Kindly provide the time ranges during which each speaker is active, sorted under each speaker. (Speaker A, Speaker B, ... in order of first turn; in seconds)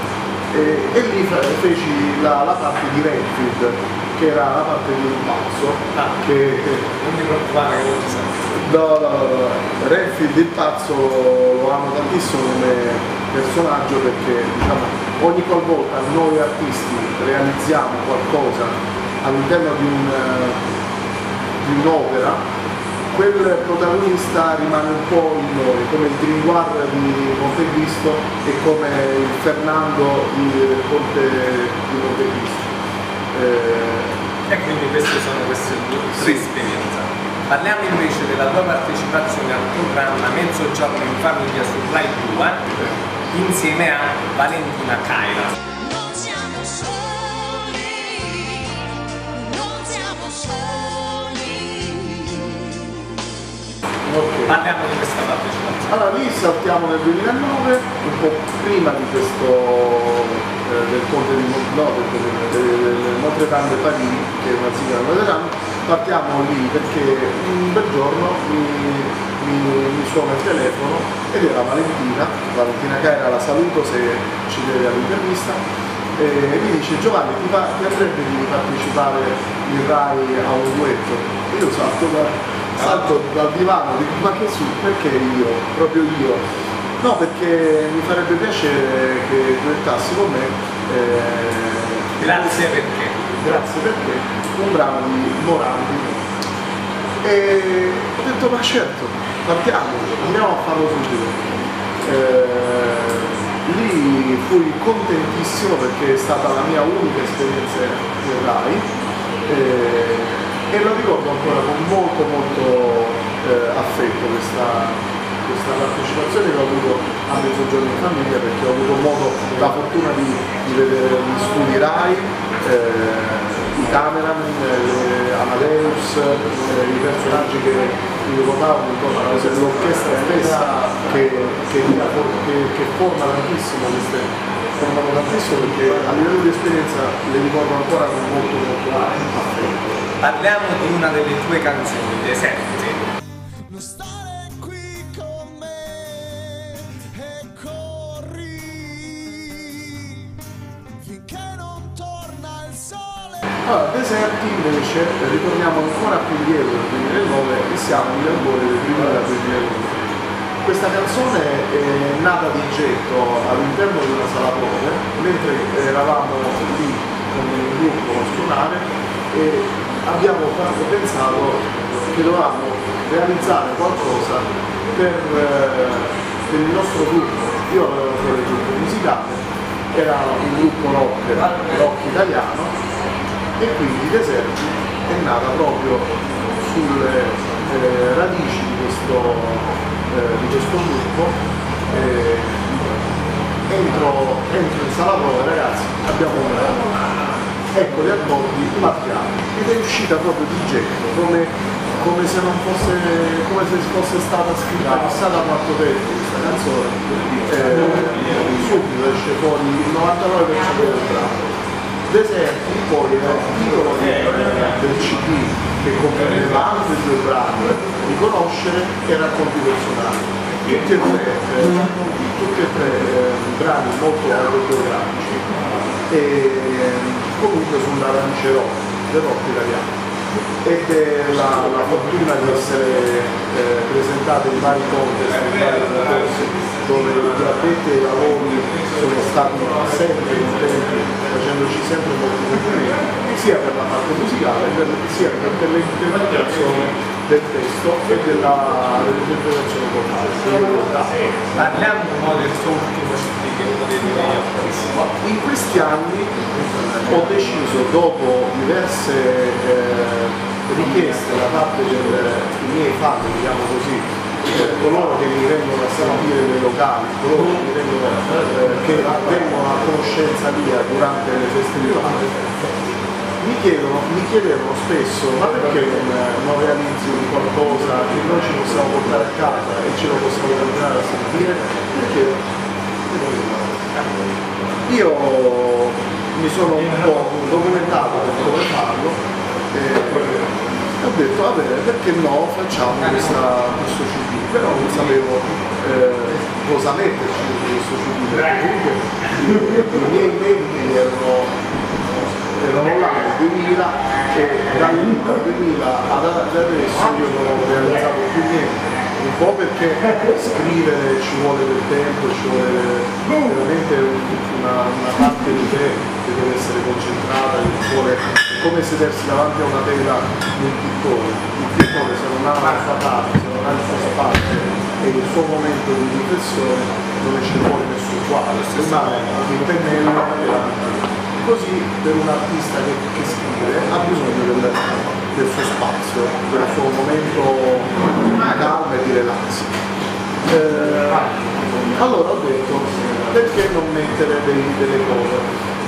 Speaker A: 0.5-6.8, 8.5-20.6, 21.6-22.4, 23.1-32.7, 33.3-34.1, 54.0-54.6, 55.9-75.6, 76.2-86.4, 87.0-92.7, 93.4-96.2, 97.2-108.9, 109.5-140.0, 153.7-160.1, 160.6-182.7, 183.6-191.4, 191.9-192.7, 193.7-196.8, 197.7-211.4, 212.1-225.5, 226.1-229.9, 230.6-251.2, 255.2-272.4, 273.4-282.4, 283.1-283.7, 284.9-289.2, 289.7-290.5, 291.0-301.5, 302.6-339.8, 340.5-341.3, 341.9-345.5
Speaker B: 6.9-8.4, 34.5-42.7, 43.3-45.5, 54.5-55.9, 92.2-93.2, 140.2-143.0, 251.6-255.1, 328.5-329.5
Speaker C: 45.8-48.8, 49.3-53.0, 143.7-150.3, 151.0-153.4